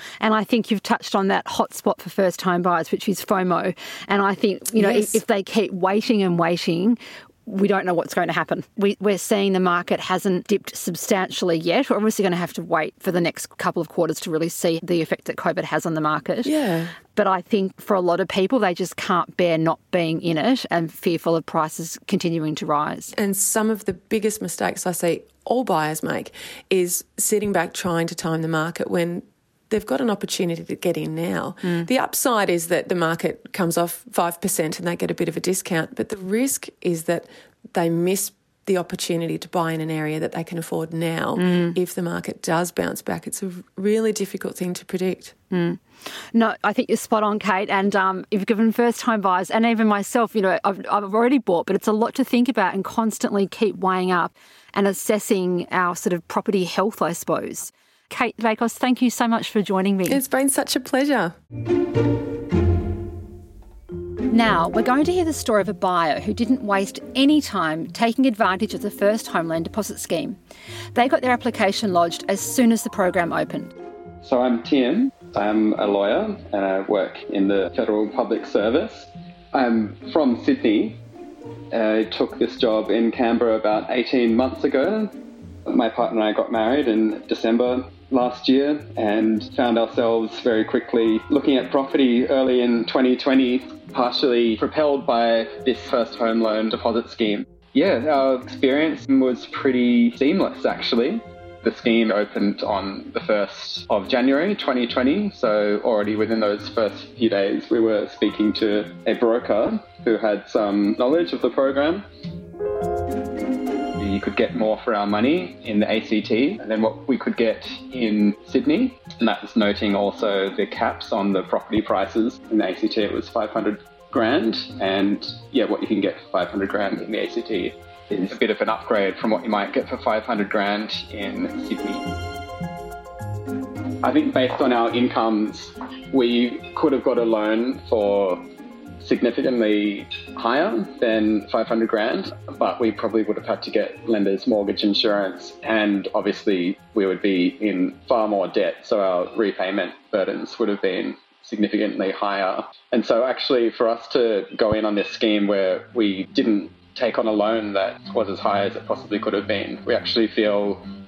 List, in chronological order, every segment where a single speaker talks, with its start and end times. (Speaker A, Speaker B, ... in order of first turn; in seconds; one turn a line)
Speaker A: 0.2-16.5
Speaker B: 4.8-5.2
Speaker B: 16.4-16.9
Speaker A: 17.1-23.1
Speaker B: 23.1-45.3
Speaker A: 41.4-41.8
Speaker A: 45.5-60.2
Speaker B: 60.1-61.3
Speaker A: 64.3-70.4
Speaker A: 70.9-73.7
Speaker C: 74.2-81.0
Speaker C: 81.7-85.1
Speaker C: 85.7-112.0
Speaker C: 114.0-132.1
Speaker C: 134.0-138.5
Speaker C: 139.0-160.8